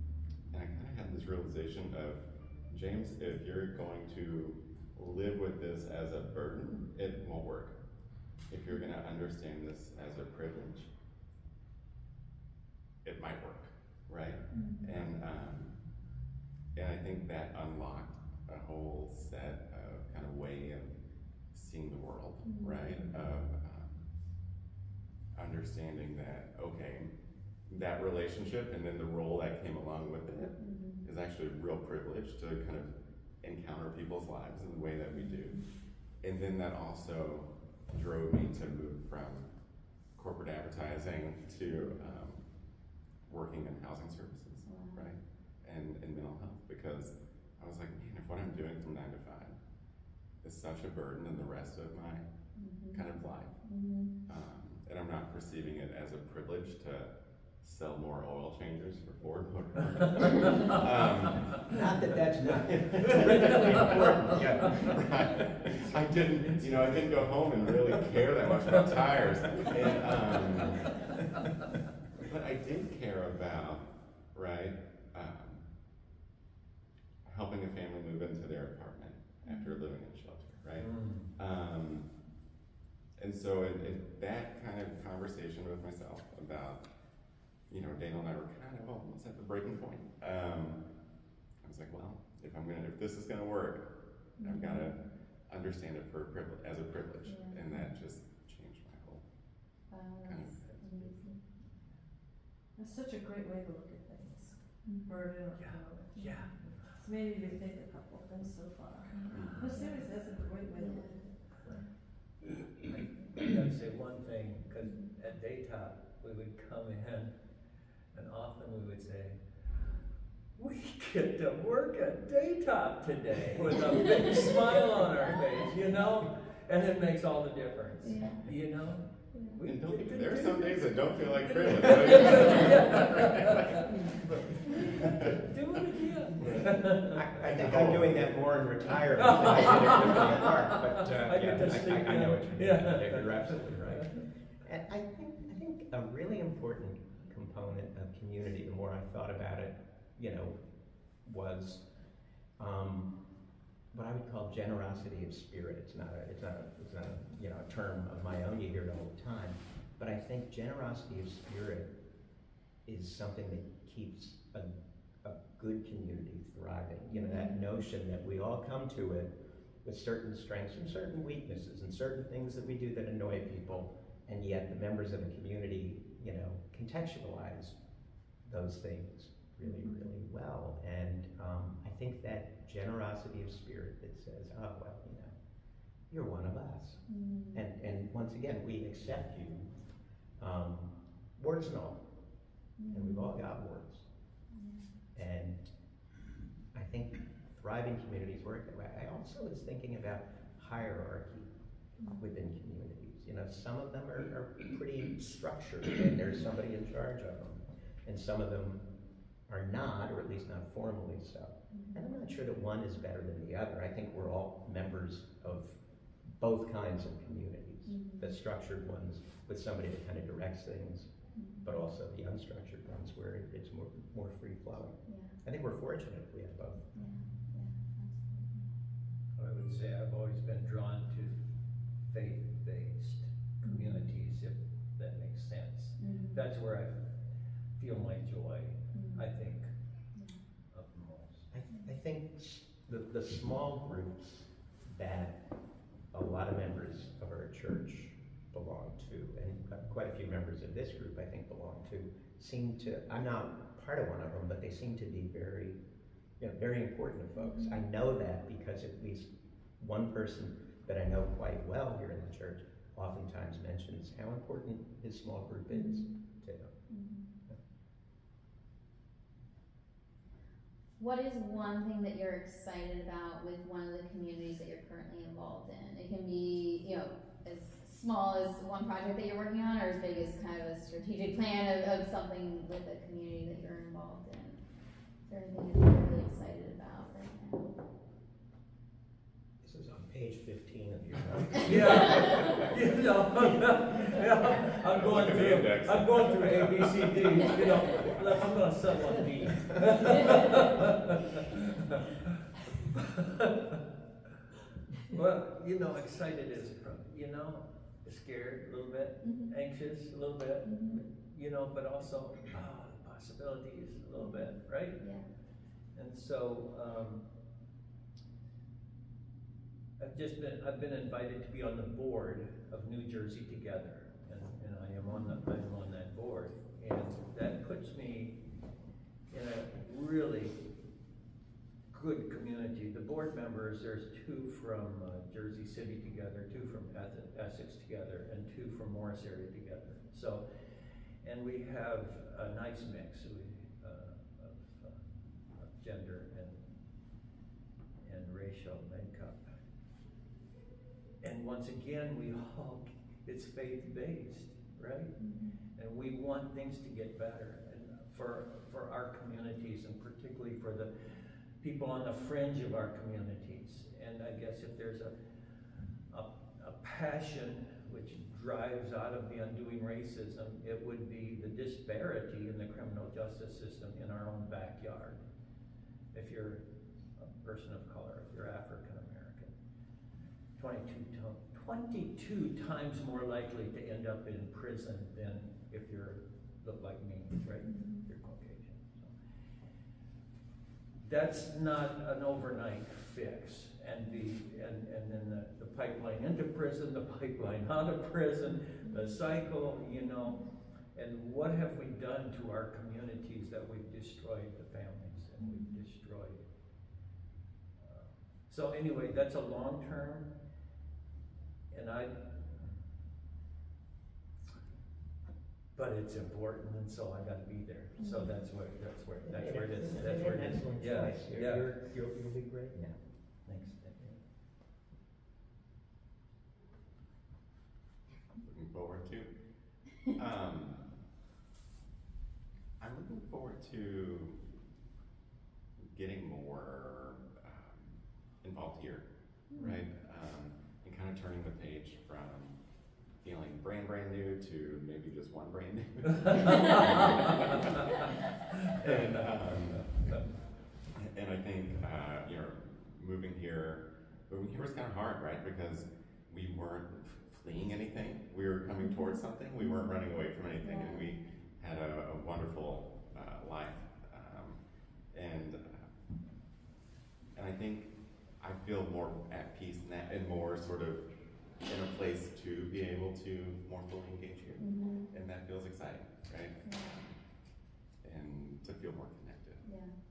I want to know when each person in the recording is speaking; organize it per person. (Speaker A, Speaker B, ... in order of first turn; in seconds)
Speaker A: 0.5-7.7, 8.5-10.9, 13.0-15.8, 16.8-20.9, 21.5-24.1, 25.3-27.1, 27.7-35.6, 36.2-39.5, 40.1-42.4, 43.3-49.6, 50.4-52.2, 52.9-53.5, 54.3-57.1, 57.6-61.7, 62.5-70.9, 72.2-75.6, 77.2-82.1, 83.2-86.8, 87.7-90.8, 91.6-95.0, 95.5-99.2, 100.2-100.6, 109.3-109.6, 129.7-135.3, 137.4-138.3, 294.9-297.4, 428.4-429.3, 430.2-430.8, 432.8-434.4, 435.9-439.0, 439.6-442.6, 443.2-447.8, 448.8-450.0, 451.0-464.6, 465.1-465.9, 467.4-471.1, 471.6-476.6, 478.0-479.6
Speaker B: 14.5-14.9, 22.4-23.0, 30.6-31.1, 35.1-35.5, 41.6-42.0, 44.6-45.1, 52.5-53.0, 53.6-54.1, 79.4-79.8, 94.4-95.0, 97.2-97.8, 99.9-101.4, 104.8-105.1, 106.2-106.5, 109.6-110.0, 110.7-111.2, 128.0-128.4, 167.1-167.6, 179.6-180.1, 187.1-187.7, 192.8-193.4, 194.6-194.9, 202.0-202.4, 211.7-212.0, 217.8-218.4, 221.3-221.7, 225.1-225.4, 226.9-228.7, 233.6-234.1, 236.0-236.4, 238.9-239.2, 257.4-257.8, 265.7-266.1, 266.9-267.2, 271.0-284.6, 285.3-287.7, 292.0-292.6, 309.2-309.5, 310.6-311.0, 314.2-315.2, 325.1-325.3, 355.2-355.6, 387.7-388.1, 398.9-399.2, 405.4-405.8, 418.0-418.3, 459.6-460.0, 460.6-461.1, 474.6-475.1, 476.6-477.0, 479.6-479.9
Speaker C: 60.0-60.7, 63.0-64.1, 65.7-68.0, 68.7-69.7, 80.8-81.3, 105.6-106.5, 112.9-117.3, 118.1-119.4, 120.5-137.2, 139.2-144.1, 229.4-231.3, 232.1-236.9, 237.8-239.7, 240.7-241.5, 291.6-302.0, 302.9-303.8, 305.1-315.0, 315.9-317.2, 320.0-328.4, 329.3-330.6, 331.9-340.4, 341.2-345.0, 345.5-346.7, 348.0-349.5, 351.2-355.1, 355.8-361.0, 361.6-365.1, 366.1-375.2, 376.1-376.6, 377.1-379.5, 380.6-389.1, 391.0-400.4, 400.9-406.4, 407.8-410.3, 411.7-412.6, 415.8-421.6, 423.4-424.2, 446.1-447.8, 448.6-450.2
Speaker D: 61.7-65.0, 136.5-150.6, 151.2-151.8, 152.6-153.1, 153.9-161.9, 162.8-164.7, 165.2-177.8, 178.4-185.3, 186.1-189.7, 190.4-192.0, 192.9-194.0, 195.1-195.7, 196.7-201.5, 202.2-208.8, 209.5-221.1, 221.6-226.9, 241.5-245.4, 246.1-255.8, 256.4-266.7, 289.6-292.8, 419.2-423.0
Speaker E: 102.8-111.4